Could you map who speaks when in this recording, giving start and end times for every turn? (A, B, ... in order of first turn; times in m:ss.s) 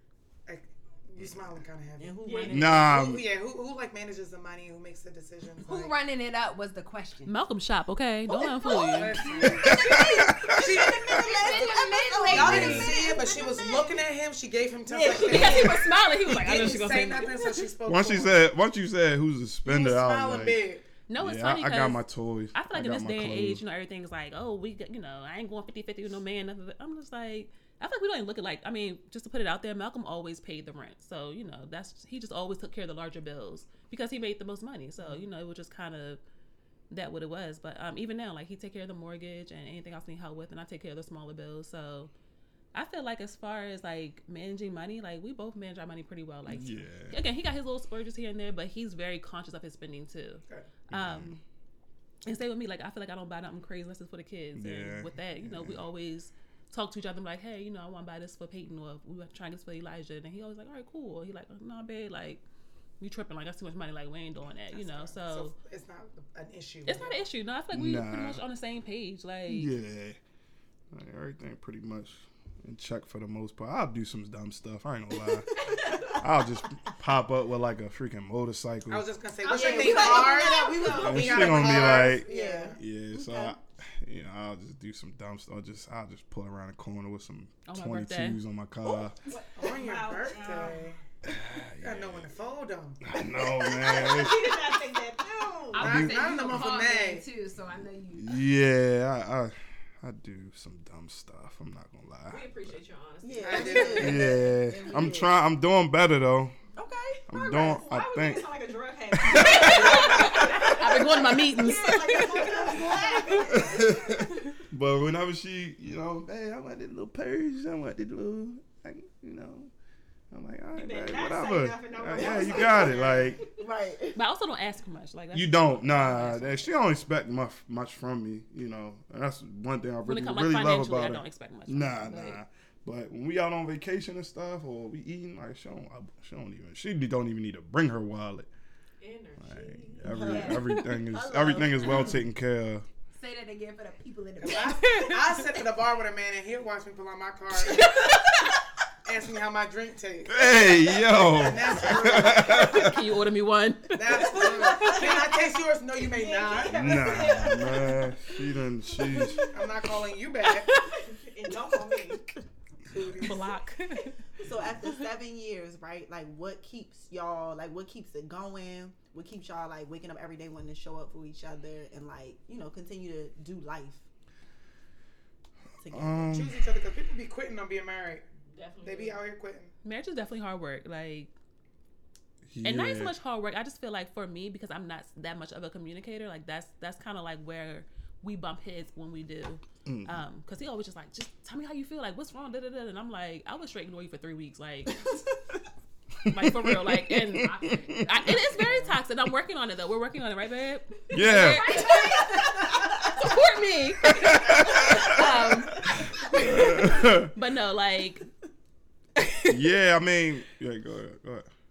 0:00.5-0:06.0 A
0:01.2-0:01.4 B
0:02.0-0:02.8 C
0:02.2-0:03.0 D
0:02.5-0:03.3 B
0:05.6-0:07.3 E
0:07.2-0:09.3 F
0:08.8-0:09.8 A
0:09.4-0:10.3 E
0:09.6-0:11.2 B
0:09.6-0:13.8 C
0:10.5-0:11.5 A
0:11.1-0:13.6 E
0:12.3-0:18.5 A
0:12.4-0:12.9 B
0:14.9-0:15.7 C
0:15.0-0:15.7 E
0:15.1-0:17.6 F
0:17.9-0:20.6 B
0:19.6-0:20.8 A
0:21.1-0:36.2 F
0:21.2-0:23.6 B
0:36.9-0:42.1 F
0:42.7-0:51.4 F
0:46.5-0:47.2 B
0:50.9-0:51.4 B
0:52.3-1:02.4 F
0:54.6-0:55.8 B
1:03.0-1:05.5 F
1:04.7-1:07.2 A
1:06.9-1:09.7 F
1:07.7-1:08.4 B
1:09.5-1:10.2 B
1:10.9-1:19.1 B
1:18.9-1:22.8 A
1:19.4-1:21.4 D
1:19.5-1:23.5 C
1:20.9-1:29.2 B
1:27.7-1:28.4 F
1:28.9-1:30.9 D
1:29.6-1:31.0 A
1:31.2-1:32.4 B
1:31.8-1:33.0 A
1:33.0-1:34.7 B
1:33.4-1:35.9 D
1:35.7-1:38.4 E
1:35.8-1:37.3 A
1:35.8-1:36.2 B
1:38.2-1:42.5 B
1:42.3-1:44.4 D
1:43.2-1:45.4 C
1:43.4-1:44.3 A
1:43.9-1:46.6 B
1:46.7-1:47.2 C
1:47.3-1:48.5 B
1:47.3-1:54.2 D
1:49.1-1:50.8 B
1:49.4-1:52.5 F
1:50.0-1:50.3 C
1:51.9-1:54.1 C
1:53.5-1:59.7 B
2:00.3-2:03.4 B
2:00.7-2:03.5 D
2:02.1-2:04.2 C
2:04.2-2:06.7 F
2:05.3-2:18.5 B
2:10.0-2:12.4 F
2:19.0-2:20.5 D
2:19.4-2:22.9 B
2:20.1-2:22.2 C
2:20.2-2:20.7 E
2:23.1-2:25.0 E
2:24.4-2:28.0 A
2:24.7-2:25.2 F
2:27.7-2:28.4 F
2:29.0-2:32.9 A
2:30.3-2:33.0 B
2:32.4-2:35.1 F
2:33.9-2:37.3 A
2:36.1-2:37.9 D
2:36.7-2:39.5 B
2:37.4-2:37.7 E
2:39.5-2:40.8 A
2:40.7-2:41.0 F
2:41.0-2:42.2 D
2:42.8-2:43.6 A
2:43.2-2:44.2 F
2:44.4-2:54.1 C
2:55.8-2:56.4 C
2:55.9-2:56.6 B
2:56.3-2:58.3 A
2:58.5-2:59.2 D
2:58.8-2:59.7 A
2:59.8-3:01.3 F
3:02.5-3:03.2 B
3:02.6-3:15.0 F
3:09.9-3:10.2 B
3:16.2-3:18.5 B
3:16.3-3:28.3 F
3:17.4-3:19.0 E
3:21.1-3:21.8 B
3:21.4-3:23.1 E
3:24.1-3:25.2 B
3:24.9-3:25.5 E
3:25.8-3:27.3 B
3:26.4-3:26.8 E
3:29.2-3:29.6 F
3:29.5-3:31.5 B